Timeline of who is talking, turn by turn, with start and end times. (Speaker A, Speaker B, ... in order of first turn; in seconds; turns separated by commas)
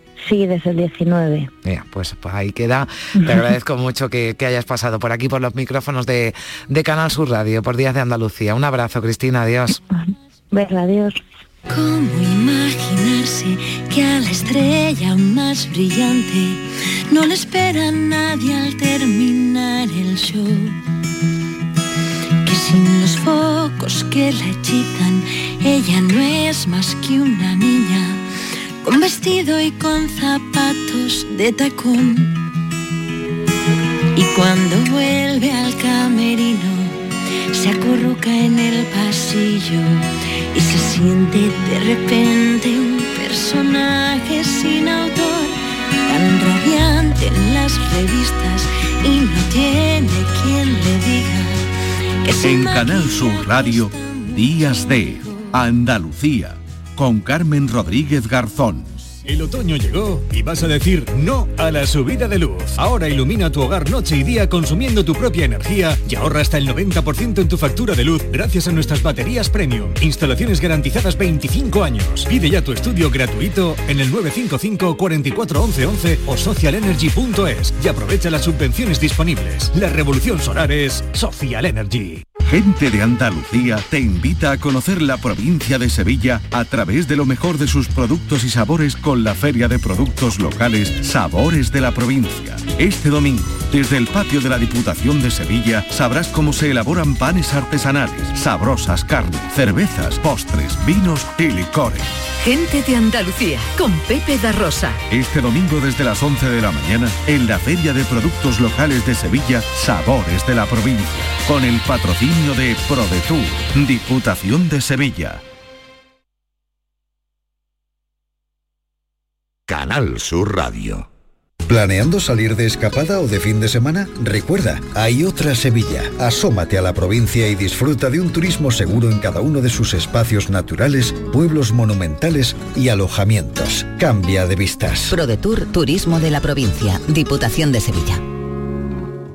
Speaker A: 0.2-1.5, Speaker B: 1.6-9.8, Speaker A: 9.9-11.2, Speaker C: 11.7-20.8, Speaker C: 22.4-28.2, Speaker C: 28.8-32.4, Speaker C: 34.1-37.0, Speaker C: 37.5-51.6, Speaker C: 52.2-54.5, Speaker D: 52.4-58.9, Speaker E: 59.2-82.2, Speaker D: 82.5-102.1, Speaker F: 102.4-105.0, Speaker D: 105.1-115.4, Speaker G: 121.7-135.2, Speaker H: 135.1-138.2